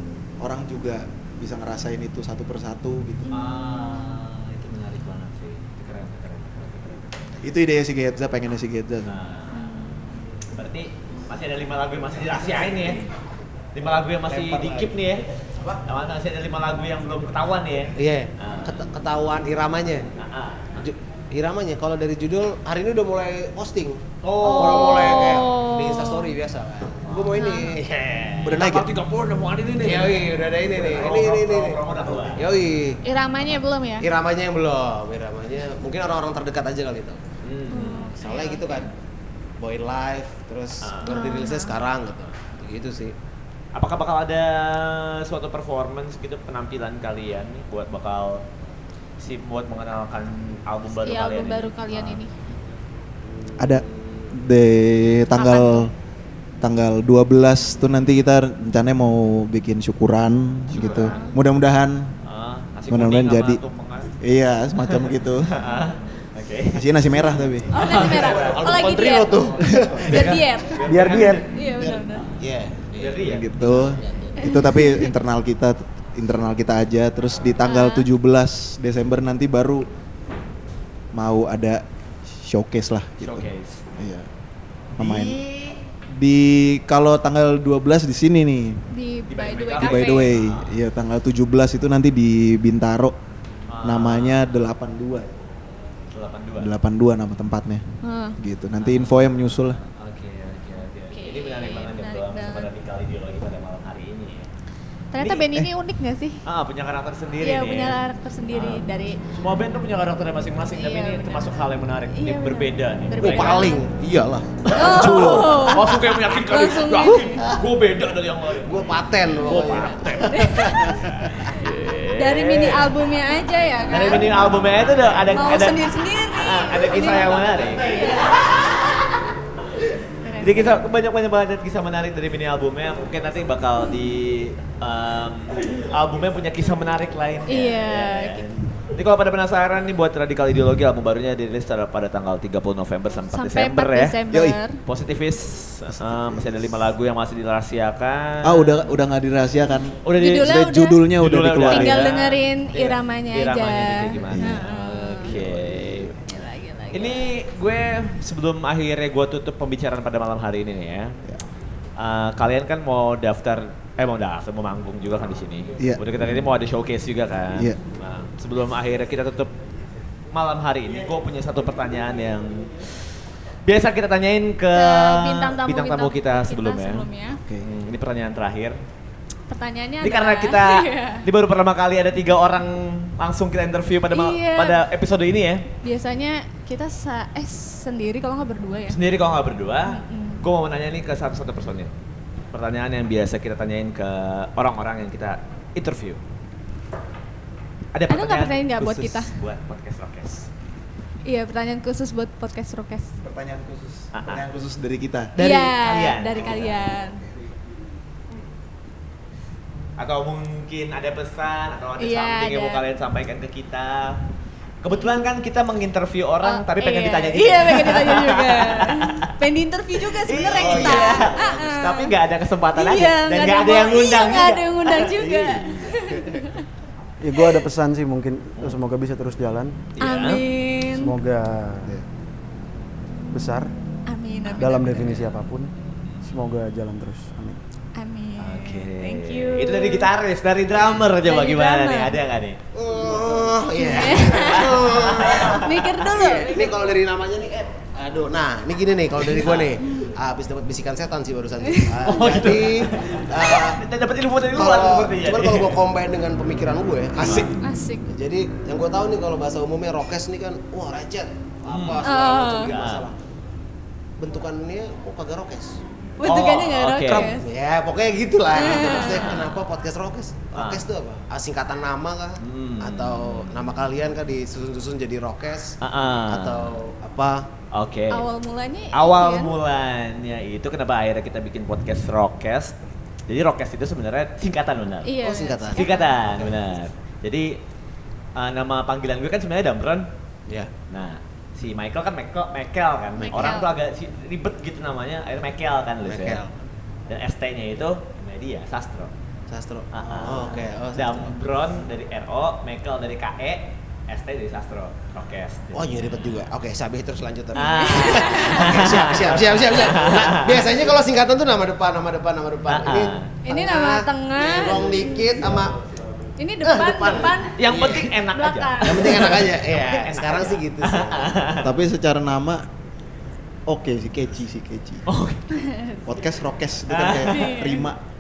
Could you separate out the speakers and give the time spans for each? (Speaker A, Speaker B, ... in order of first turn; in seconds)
Speaker A: 0.4-3.3, 7.4-9.2, 14.3-14.9, 28.4-28.9, 53.6-55.9, 56.6-62.1, 62.9-63.6, 64.2-65.5, 66.7-68.3, 69.8-70.4, 73.2-79.9, 81.1-81.8, 82.4-83.5, 84.0-84.3, 85.0-85.4, 86.1-88.8, 89.8-93.2, 93.8-95.3, 96.6-97.8, 98.4-99.8, 105.2-105.7, 144.3-144.6, 145.9-146.7, 148.4-152.1, 154.3-154.6, 155.2-156.2, 177.4-177.7, 203.2-205.4, 206.4-207.4, 321.6-322.7, 323.7-325.1, 326.1-328.0
Speaker B: 3.3-4.0, 9.5-10.1, 24.4-26.3, 27.3-27.8, 33.0-34.1, 37.7-38.8, 41.0-41.8, 51.0-52.3, 55.4-55.9, 60.8-61.4, 67.7-69.4, 70.0-70.8, 71.5-72.3, 74.4-75.1, 77.6-78.1, 88.9-90.3, 98.0-98.4, 101.1-102.7, 105.1-106.4, 107.4-109.2, 110.7-111.6, 112.1-113.8, 114.7-117.6, 119.5-121.0, 122.2-124.4, 125.3-129.1, 130.2-130.8, 137.5-138.5, 143.3-144.8, 150.2-151.1, 151.7-155.4, 156.2-157.2, 174.7-177.4, 179.5-181.3, 184.1-184.8, 185.8-189.0, 189.9-190.4, 198.1-199.3, 201.2-203.1, 205.4-207.2, 212.0-212.8, 216.4-222.1, 222.8-226.6, 230.0-231.2, 234.1-235.1, 238.0-240.1, 240.7-242.2, 243.8-244.8, 245.4-246.9, 251.7-252.0, 257.5-258.1, 262.0-262.7, 266.2-267.5, 268.5-269.4, 278.1-279.6, 285.0-286.2, 293.2-293.7, 307.6-308.8, 313.4-315.4, 316.4-319.3, 325.6-326.0, 327.3-327.9
Speaker C: 3.3-7.2, 9.1-9.6, 10.6-13.1, 13.7-15.3, 15.9-18.8, 20.2-20.8, 24.2-25.4, 27.1-32.4, 37.4-38.3, 40.8-41.2, 43.8-48.4, 49.2-52.2, 60.7-61.3, 62.2-64.1, 64.8-68.9, 70.0-71.5, 73.0-73.9, 83.2-83.8, 85.0-85.8, 89.3-90.8, 93.7-94.5, 96.1-96.7, 98.8-104.5, 106.5-108.0, 108.5-113.8, 114.6-118.8, 119.3-122.9, 123.9-128.9, 130.4-144.2, 144.9-148.9, 150.1-150.6, 151.1-156.1, 156.9-161.2, 162.0-169.5, 170.3-173.1, 173.7-177.1, 177.6-178.8, 180.0-185.7, 188.9-191.9, 192.5-196.2, 197.9-200.5, 204.1-204.4, 205.4-206.8, 210.0-214.2, 214.8-219.2, 220.2-226.4, 230.0-230.4, 234.9-235.2, 238.4-242.6, 244.0-246.4, 249.2-249.7, 252.0-255.8, 257.2-257.5, 261.7-262.1, 262.6-263.1, 266.2-267.4, 268.6-269.6, 270.6-270.8, 272.4-273.7, 275.8-276.8, 277.7-278.3, 278.9-282.8, 283.3-285.1, 285.7-287.6, 288.4-290.1, 290.9-296.4, 297.1-299.1, 299.9-305.9, 307.6-310.9, 312.7-313.3, 317.6-321.7, 325.1-325.4, 326.9-327.6
Speaker D: 18.0-20.1, 20.8-27.8, 29.8-33.0, 34.0-37.2, 38.2-38.9, 39.6-43.1, 68.1-69.7, 71.8-73.2, 73.8-74.4, 113.2-115.5, 117.4-117.6, 118.6-121.3, 220.4-221.2, 242.7-245.6, 246.5-253.8, 254.5-257.6, 258.1-263.2, 264.2-265.8, 267.2-277.5, 285.2-286.5, 296.1-296.5, 299.5-301.4, 305.7-315.8, 316.6-318.1, 318.8-321.6
Speaker E: 70.8-71.5, 227.2-229.8, 230.9-231.9, 233.3-233.7, 234.6-235.7, 236.2-237.6